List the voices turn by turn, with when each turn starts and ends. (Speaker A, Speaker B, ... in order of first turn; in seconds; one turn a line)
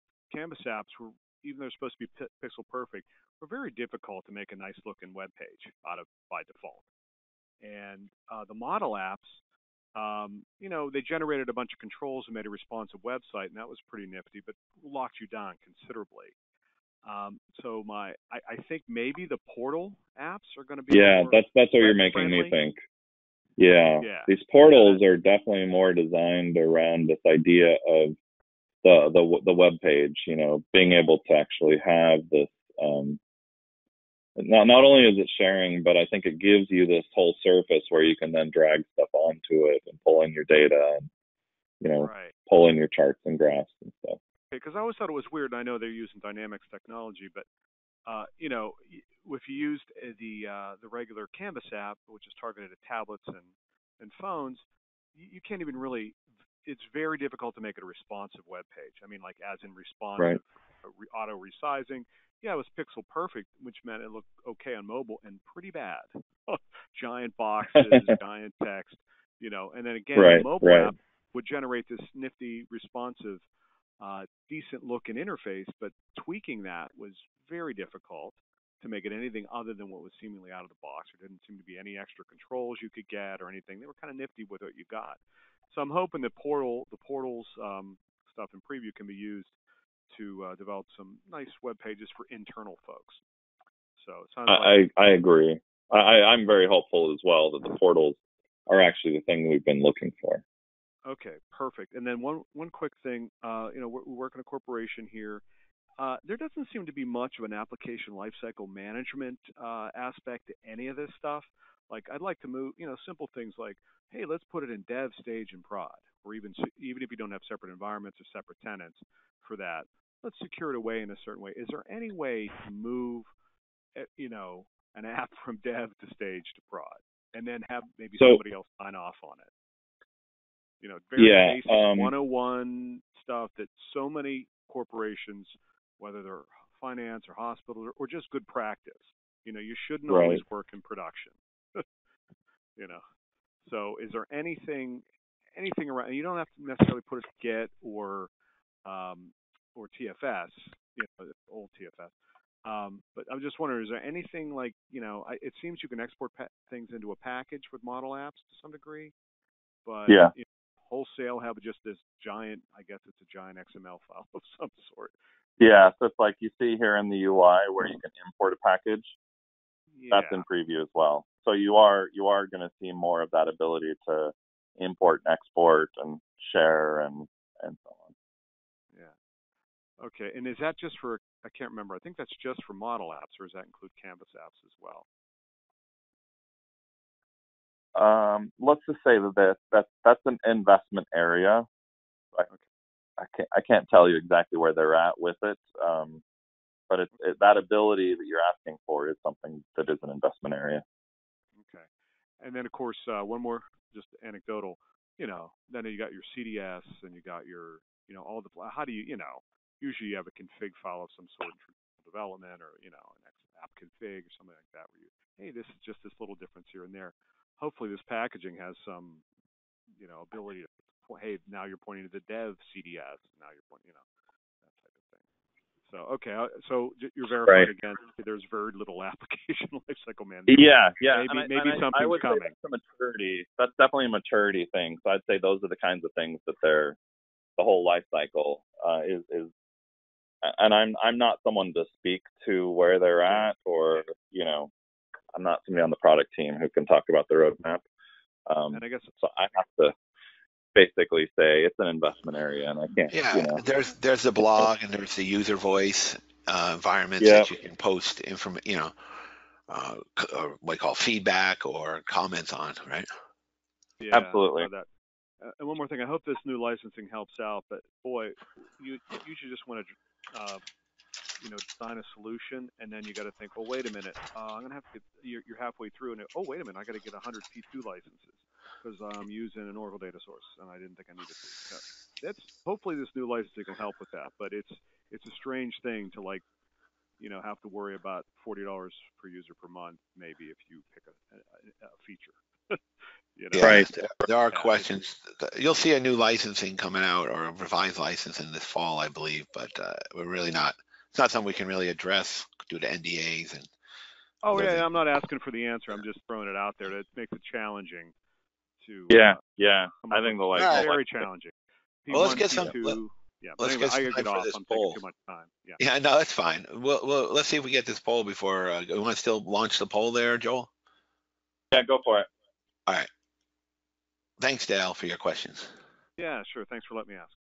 Speaker A: 0.3-6.8
Speaker A: 7.6-9.4
Speaker A: 9.9-16.3
Speaker A: 17.0-22.6
Speaker B: 20.9-22.8
Speaker B: 23.6-28.2
Speaker A: 24.0-25.0
Speaker B: 28.8-33.2
Speaker B: 34.4-41.1
Speaker B: 41.8-44.2
Speaker A: 42.0-42.3
Speaker A: 44.5-47.5
Speaker A: 48.0-54.6
Speaker A: 55.1-73.4
Speaker B: 67.8-68.1
Speaker B: 70.2-70.9
Speaker A: 74.0-89.5
Speaker A: 90.1-93.2
Speaker A: 94.0-94.8
Speaker B: 94.5-98.2
Speaker B: 98.7-100.4
Speaker A: 101.0-105.4
Speaker A: 106.0-123.3
Speaker A: 124.0-129.5
Speaker A: 130.8-141.8
Speaker B: 131.2-132.1
Speaker B: 140.1-140.4
Speaker A: 142.8-143.0
Speaker A: 143.6-145.0
Speaker A: 145.5-148.3
Speaker A: 148.8-152.1
Speaker A: 152.6-159.1
Speaker A: 159.8-165.1
Speaker B: 160.1-160.3
Speaker B: 165.6-169.1
Speaker A: 170.0-170.4
Speaker B: 170.1-178.1
Speaker A: 180.0-185.1
Speaker B: 187.9-191.7
Speaker B: 193.2-196.2
Speaker B: 196.9-200.8
Speaker A: 201.6-201.9
Speaker A: 202.4-219.2
Speaker A: 220.0-224.0
Speaker A: 224.6-225.2
Speaker A: 225.8-232.5
Speaker B: 230.5-237.0
Speaker B: 237.6-239.5
Speaker B: 240.4-244.7
Speaker B: 245.3-247.8
Speaker B: 248.5-249.9
Speaker A: 248.7-249.1
Speaker B: 250.7-253.6
Speaker C: 253.1-258.9
Speaker B: 257.2-257.5
Speaker C: 259.7-263.1
Speaker A: 264.0-264.9
Speaker B: 264.1-264.7
Speaker A: 265.4-270.6
Speaker A: 271.4-286.4
Speaker A: 287.2-292.8
Speaker A: 293.4-293.8
Speaker C: 293.5-303.7
Speaker B: 293.6-294.1
Speaker A: 294.5-294.8
Speaker A: 304.4-308.1
Speaker C: 304.5-304.9
Speaker A: 308.8-309.4
Speaker B: 309.1-311.0
Speaker A: 310.0-311.5
Speaker C: 310.6-310.9
Speaker A: 312.0-315.8
Speaker C: 312.1-313.0
Speaker C: 313.6-315.0
Speaker C: 315.8-320.7
Speaker B: 321.7-322.3
Speaker C: 324.4-325.7
Speaker A: 326.2-327.3